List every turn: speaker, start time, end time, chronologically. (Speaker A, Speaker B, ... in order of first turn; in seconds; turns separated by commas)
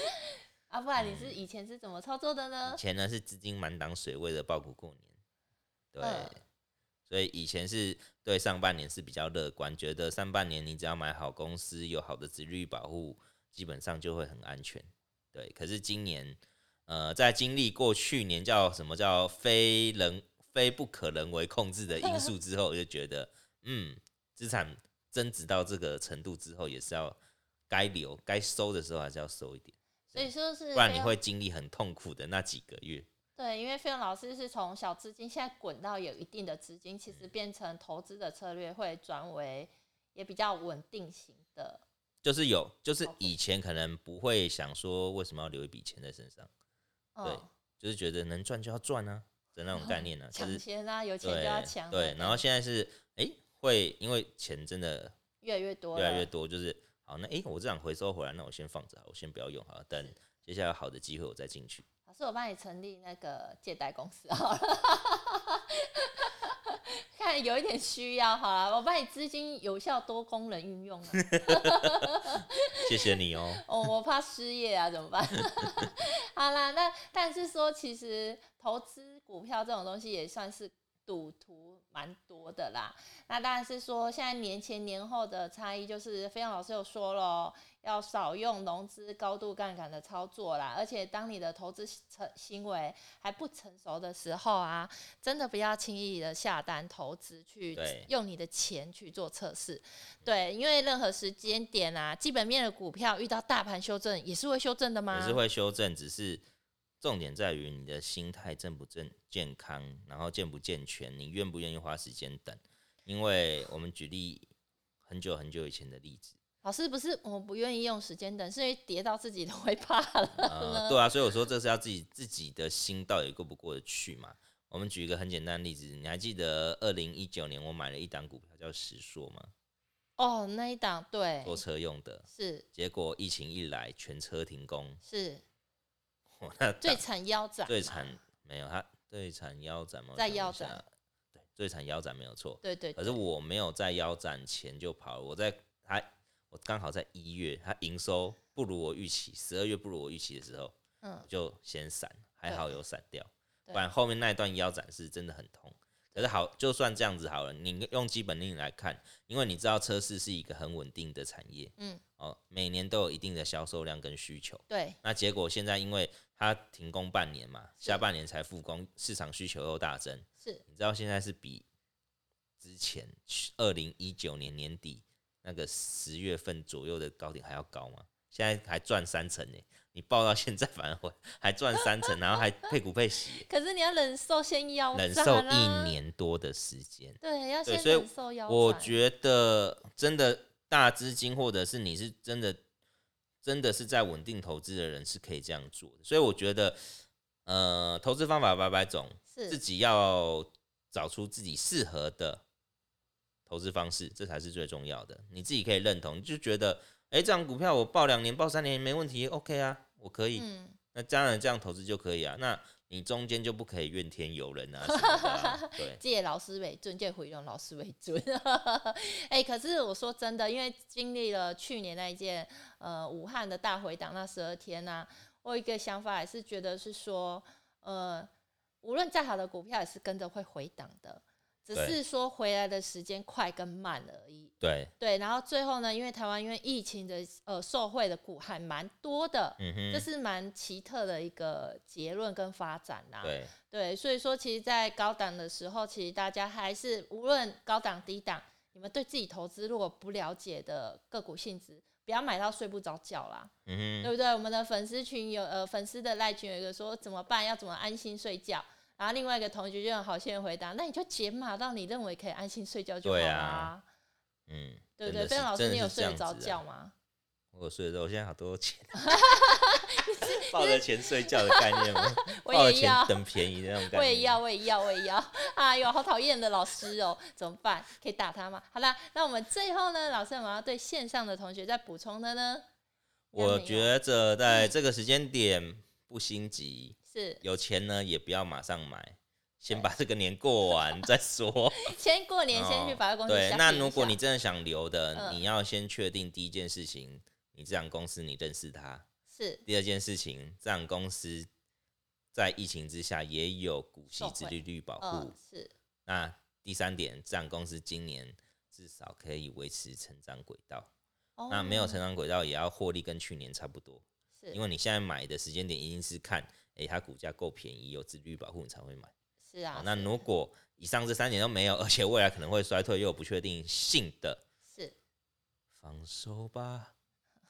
Speaker A: 0.7-2.8, Speaker B: 1.0-1.4, Speaker B: 2.6-5.1, Speaker B: 5.9-6.4, Speaker A: 6.0-6.4, Speaker B: 7.1-27.2, Speaker B: 27.7-33.1, Speaker A: 30.1-31.1, Speaker A: 33.4-41.8, Speaker B: 42.2-46.5, Speaker A: 43.0-43.4, Speaker A: 47.1-47.5, Speaker B: 47.2-50.6, Speaker A: 49.7-52.4, Speaker B: 51.2-55.1, Speaker A: 55.4-56.3, Speaker B: 56.0-61.9, Speaker A: 62.1-72.5, Speaker B: 71.3-71.6, Speaker B: 72.8-73.7, Speaker A: 73.6-105.4, Speaker B: 97.8-98.1, Speaker B: 105.1-106.4, Speaker B: 107.0-114.5, Speaker B: 115.1-116.4, Speaker A: 116.6-121.0, Speaker B: 120.4-129.5, Speaker A: 130.2-131.6, Speaker B: 131.4-135.0, Speaker A: 132.3-132.7, Speaker A: 135.0-135.4, Speaker B: 136.4-137.0, Speaker A: 136.8-138.1, Speaker B: 137.7-150.7, Speaker A: 140.2-140.8, Speaker A: 142.6-143.2, Speaker A: 151.0-151.3, Speaker B: 151.3-171.7, Speaker A: 152.5-152.7, Speaker A: 161.8-162.0, Speaker A: 164.7-165.0, Speaker B: 172.6-183.5, Speaker A: 183.5-186.0, Speaker B: 184.9-192.6, Speaker A: 187.2-189.0, Speaker B: 193.4-196.8, Speaker B: 197.5-202.4, Speaker A: 199.3-199.6, Speaker B: 203.5-216.0, Speaker A: 210.3-210.8, Speaker A: 214.9-228.3, Speaker A: 228.8-253.5, Speaker B: 234.6-234.9, Speaker B: 239.6-240.1, Speaker B: 243.2-243.5, Speaker B: 253.7-254.1, Speaker A: 254.0-263.9, Speaker B: 263.0-263.7, Speaker B: 264.5-266.6, Speaker A: 265.0-266.9, Speaker B: 267.5-269.2, Speaker A: 269.0-273.3, Speaker B: 270.2-274.4, Speaker A: 273.8-282.6, Speaker A: 283.3-283.9, Speaker B: 283.3-291.9, Speaker A: 287.1-287.4, Speaker A: 291.8-294.2, Speaker B: 292.5-299.1, Speaker A: 295.1-295.4, Speaker A: 299.3-299.6, Speaker B: 299.7-301.5, Speaker B: 302.3-305.4, Speaker A: 304.1-305.7, Speaker B: 306.1-310.9, Speaker A: 311.4-312.0, Speaker B: 311.5-319.1, Speaker A: 319.5-320.1, Speaker B: 319.7-324.4, Speaker A: 324.7-324.9, Speaker B: 325.8-326.9